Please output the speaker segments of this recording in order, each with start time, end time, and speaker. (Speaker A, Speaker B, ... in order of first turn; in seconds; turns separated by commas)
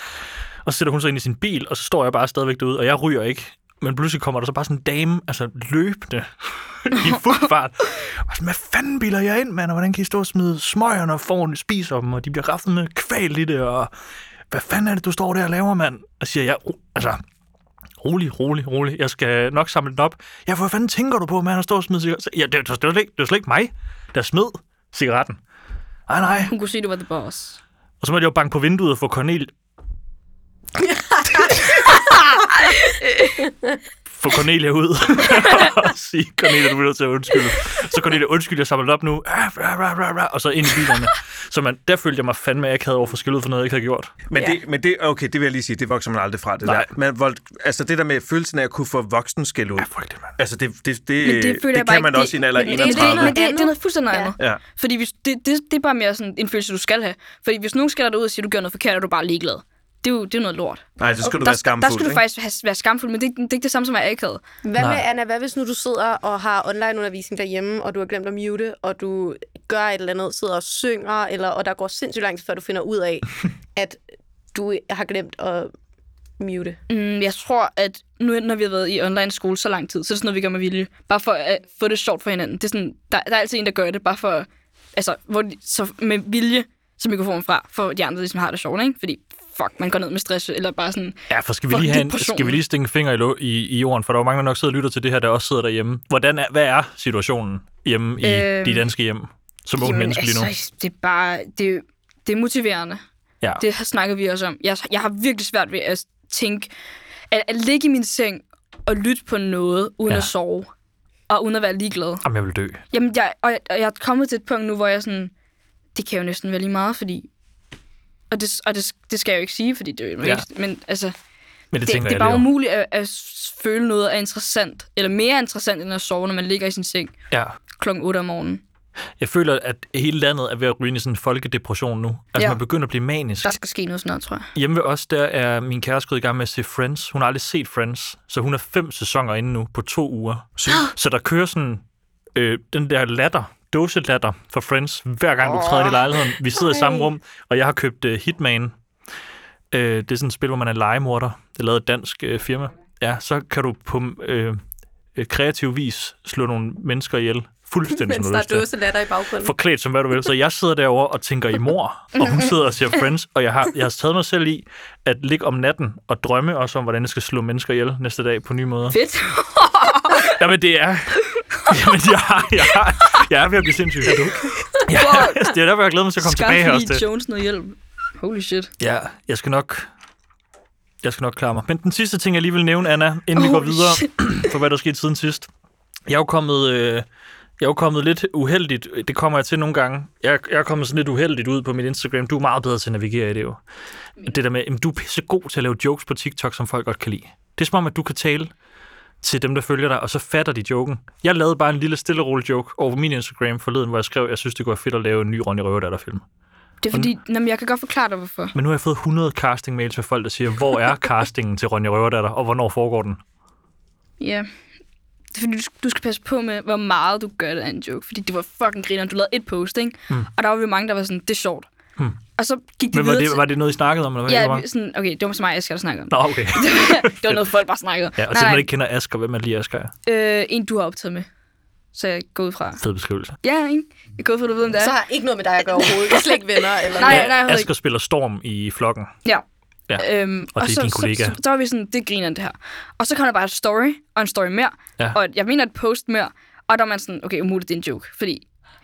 Speaker A: 0.6-13.9, Speaker A: 14.5-17.2, Speaker A: 18.0-25.4, Speaker A: 26.1-26.5, Speaker B: 26.5-27.6, Speaker A: 28.0-29.5, Speaker C: 30.8-32.7, Speaker B: 32.6-33.4, Speaker C: 33.4-33.8, Speaker A: 34.1-44.2, Speaker D: 44.3-53.3, Speaker A: 49.8-50.3, Speaker B: 51.2-60.8, Speaker C: 52.6-54.3, Speaker A: 53.0-53.3, Speaker D: 61.0-62.2, Speaker B: 61.4-64.4, Speaker C: 64.6-74.0, Speaker A: 64.8-65.0, Speaker C: 74.5-75.7, Speaker C: 76.4-76.8, Speaker B: 76.9-92.6, Speaker A: 91.3-100.5, Speaker B: 98.2-98.9, Speaker B: 99.8-103.0, Speaker B: 103.6-106.7, Speaker B: 107.3-110.7, Speaker B: 111.3-112.2, Speaker A: 112.2-112.8, Speaker B: 112.9-115.3, Speaker B: 115.9-117.3, Speaker B: 118.3-121.1, Speaker A: 121.7-122.5, Speaker B: 121.8-127.1, Speaker A: 127.3-127.5, Speaker B: 127.8-128.6, Speaker A: 129.2-133.5, Speaker B: 133.4-134.5, Speaker A: 134.5-141.8, Speaker D: 140.6-140.9, Speaker A: 142.3-148.7, Speaker B: 145.6-145.9, Speaker A: 149.7-154.6, Speaker A: 155.2-158.7, Speaker C: 157.9-159.5, Speaker A: 159.4-169.0, Speaker B: 168.9-170.3, Speaker A: 170.1-177.0, Speaker B: 171.3-171.6, Speaker B: 174.9-175.5, Speaker B: 176.2-178.7, Speaker A: 178.8-179.9, Speaker A: 181.0-185.5, Speaker B: 183.3-184.1, Speaker A: 186.1-187.0, Speaker A: 187.6-193.6, Speaker A: 194.2-198.5, Speaker A: 199.2-206.2, Speaker B: 206.8-208.5, Speaker A: 208.5-213.2, Speaker B: 214.2-214.5, Speaker B: 215.3-221.7, Speaker B: 222.3-223.5, Speaker A: 222.9-224.6, Speaker B: 224.2-228.7, Speaker A: 226.1-227.4, Speaker A: 228.2-229.9, Speaker B: 230.1-231.3, Speaker B: 231.9-232.8, Speaker A: 232.8-233.3, Speaker B: 233.4-234.9, Speaker C: 234.8-237.3, Speaker B: 235.8-236.3, Speaker B: 236.9-237.7, Speaker A: 237.0-239.1, Speaker A: 239.9-241.3, Speaker B: 240.0-248.4